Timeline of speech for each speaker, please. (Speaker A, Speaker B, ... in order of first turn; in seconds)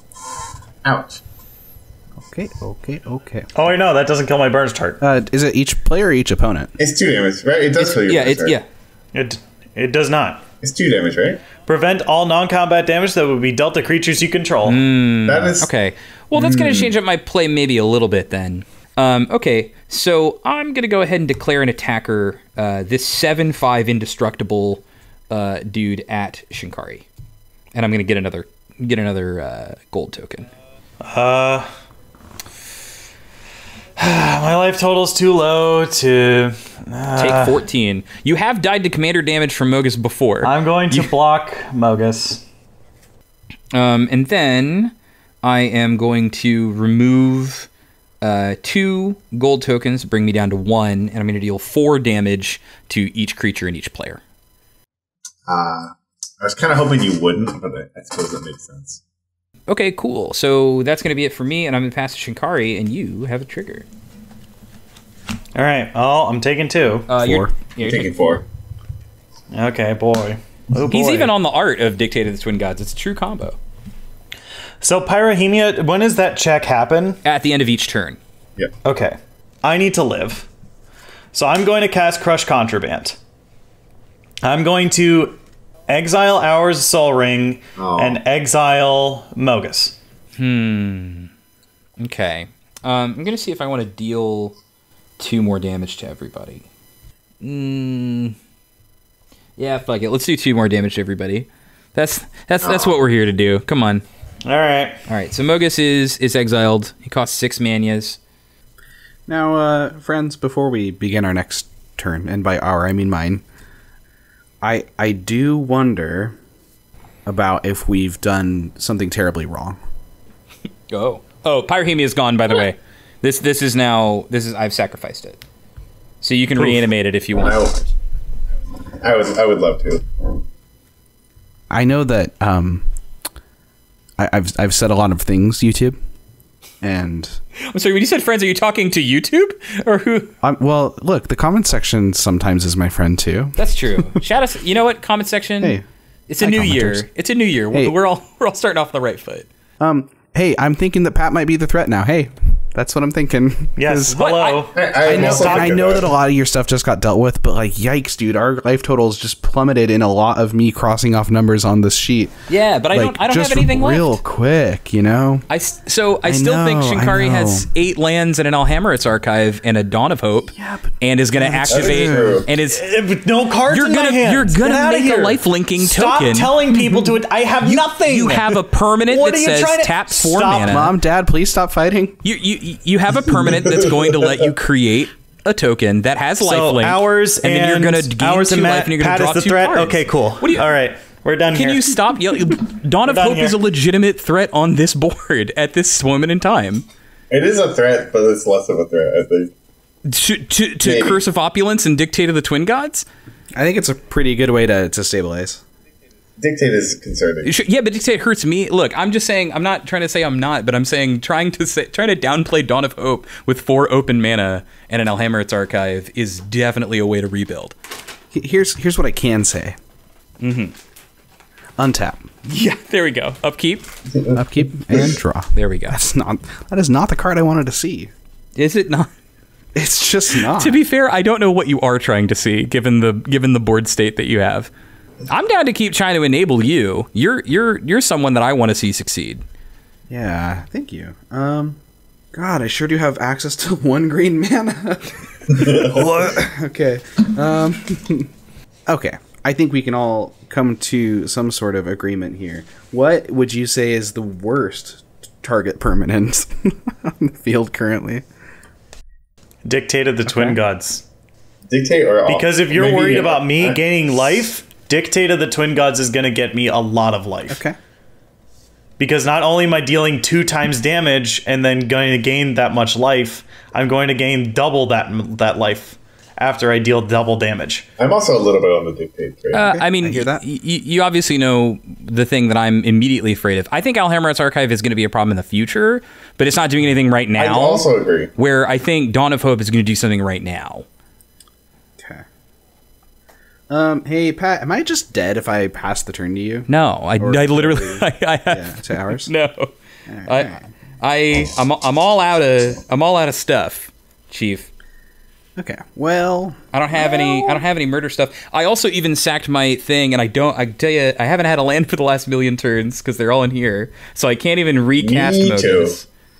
Speaker A: 0.8-1.2, 6.8-8.6, 10.6-11.4, 15.3-15.7, 16.3-16.9, 55.5-59.0, 67.8-68.4, 87.8-88.2, 102.6-103.0, 127.3-127.8, 129.0-130.0, 154.7-156.1, 171.7-172.5, 183.4-184.5, 197.3-199.5, 200.8-201.2, 206.4-207.5, 224.1-225.1, 245.5-246.2, 261.7-263.8, 278.0-279.6, 287.4-288.3, 315.0-315.9
Speaker B: 2.2-3.5, 5.0-6.7, 67.2-67.5, 109.3-113.4, 114.6-116.3, 117.2-119.8, 131.7-132.8, 134.2-136.0, 136.8-137.4, 140.4-143.6, 146.4-147.1, 149.8-154.2, 155.0-162.3, 162.9-165.4, 166.2-167.7, 170.5-172.5, 180.6-182.2, 203.5-205.6, 218.3-219.8, 221.8-222.3, 224.3-228.1, 229.8-230.8, 240.1-241.8, 242.3-248.3, 248.9-258.2, 260.2-260.6, 267.5-267.8, 279.5-280.4, 292.0-292.2, 293.7-296.7, 297.2-299.3, 300.1-300.6, 305.6-307.6
Speaker C: 3.5-5.0, 9.1-10.4, 11.7-14.8, 31.0-31.7, 34.0-37.6, 40.4-42.4, 65.5-67.1, 69.5-71.3, 74.8-77.2, 78.8-80.5, 81.3-83.2, 84.4-85.4, 85.9-89.9, 104.4-105.0, 153.8-155.8, 172.5-180.8, 186.4-192.0, 193.1-193.6, 259.6-261.0, 262.2-267.6, 269.0-277.9
Speaker D: 7.8-8.6, 14.7-27.1, 27.7-30.5, 37.1-41.1, 43.7-47.7, 48.2-54.2, 59.7-63.9, 67.1-68.4, 70.8-73.6, 77.2-78.2, 90.4-91.3, 92.0-94.5, 95.2-96.7, 97.4-98.3, 99.6-104.0, 105.1-108.2, 120.9-125.4, 126.2-127.7, 137.7-140.3, 143.6-149.5, 154.1-154.7, 162.5-164.2, 165.5-172.8, 173.7-176.5, 177.6-180.9, 182.2-190.7, 191.5-196.8, 200.0-203.1, 207.4-217.7, 220.4-220.7, 222.4-223.9, 225.5-226.0, 228.6-229.1, 230.4-234.7, 235.3-239.4, 279.5-287.8, 288.4-290.9, 296.7-299.7, 300.2-304.7, 306.7-316.1